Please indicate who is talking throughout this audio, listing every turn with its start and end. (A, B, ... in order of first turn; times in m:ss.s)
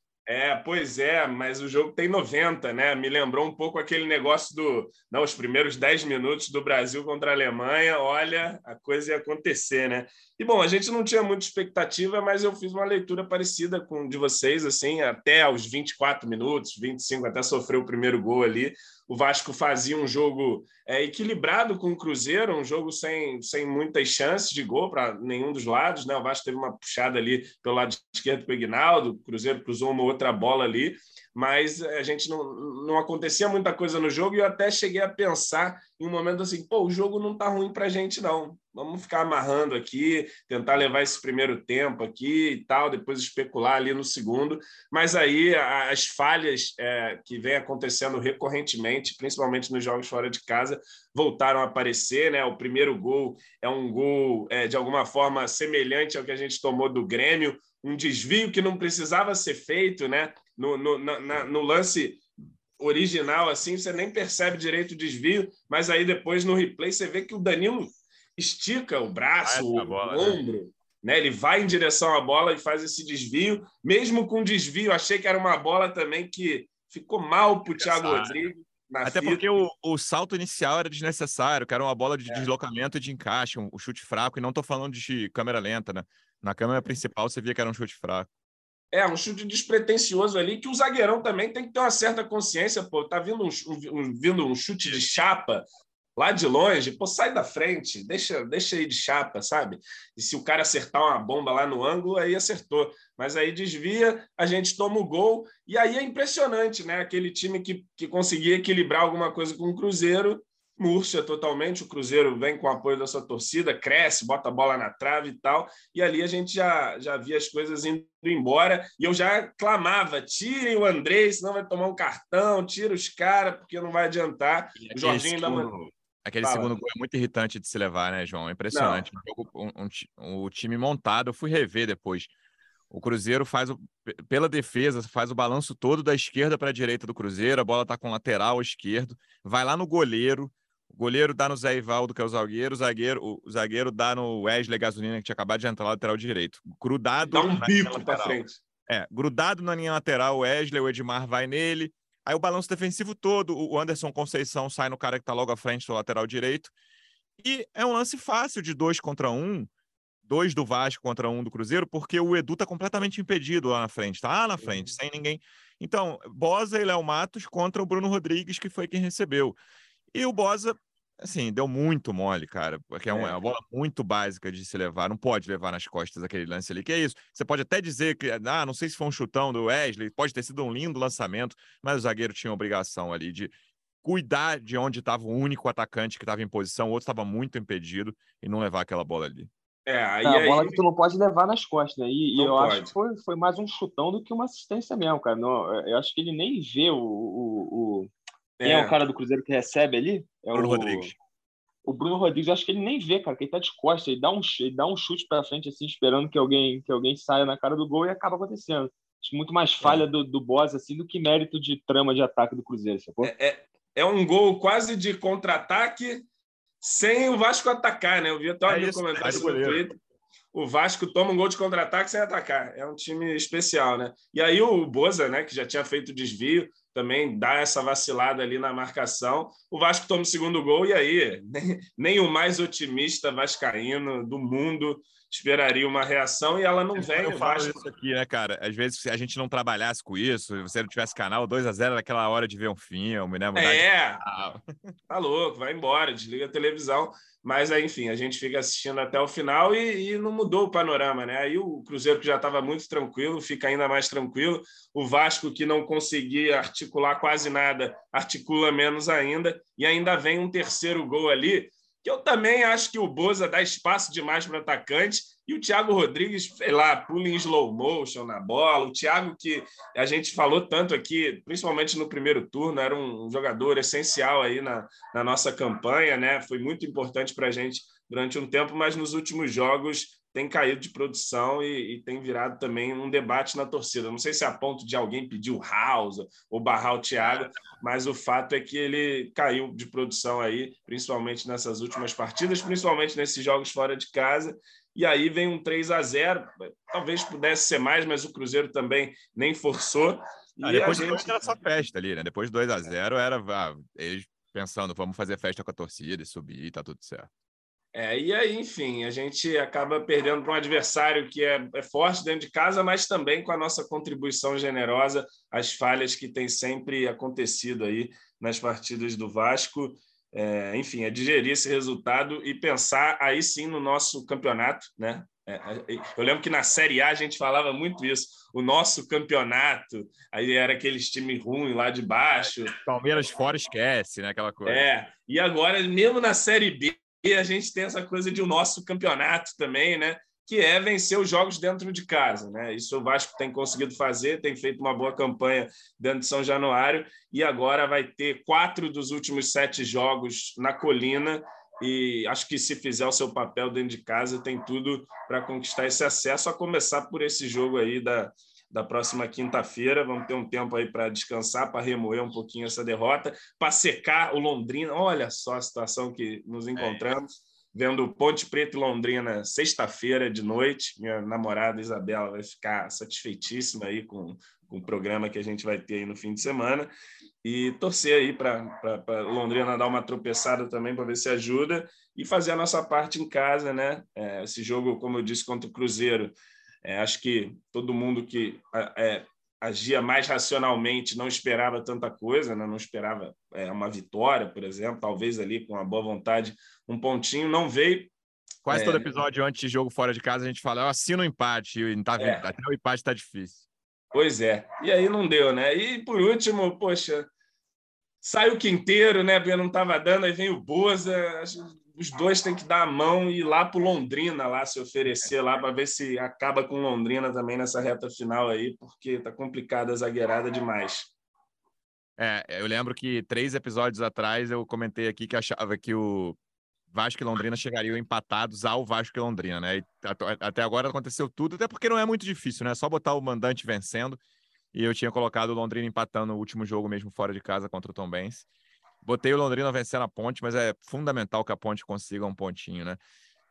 0:00.3-1:02.2 A
1:02.8-1:19.5 A
1:09.4-1:10.4 B
1:17.8-1:18.3 B
1:19.0-1:28.3 B
1:28.9-1:35.6 A
1:36.2-2:05.7 A
2:04.8-2:12.3 B
2:06.4-2:06.8 A
2:08.7-2:09.1 A
2:12.9-2:36.7 B
2:27.2-2:28.6 A
2:37.4-2:39.7 B
2:40.3-2:49.6 B
2:44.6-2:44.9 A
2:50.1-3:09.5 B
2:53.1-2:53.4 A
3:09.9-3:10.8 A
3:10.2-3:18.1 C
3:12.4-3:12.9 A
3:18.6-3:19.0 A
3:18.6-3:21.1 C
3:20.5-3:21.2 B
3:21.8-3:33.3 C
3:33.2-3:36.3 A
3:36.8-3:40.0 A
3:38.7-3:39.8 B
3:40.5-3:57.8 A
3:57.0-4:04.6 B
4:03.6-4:04.2 A
4:05.1-5:01.5 A
5:00.6-5:07.3 B
5:07.9-5:32.8 A
5:32.4-5:34.9 B
5:34.7-6:16.9 A
6:06.8-6:07.0 B
6:17.4-6:38.1 A
6:38.7-6:43.6 B
6:38.7-6:39.1 A
6:42.2-6:42.4 A
6:44.1-6:47.3 A
6:48.2-7:01.1 A
7:02.2-7:06.4 B
7:06.9-7:14.2 B
7:14.7-7:18.5 B
7:19.0-7:23.0 B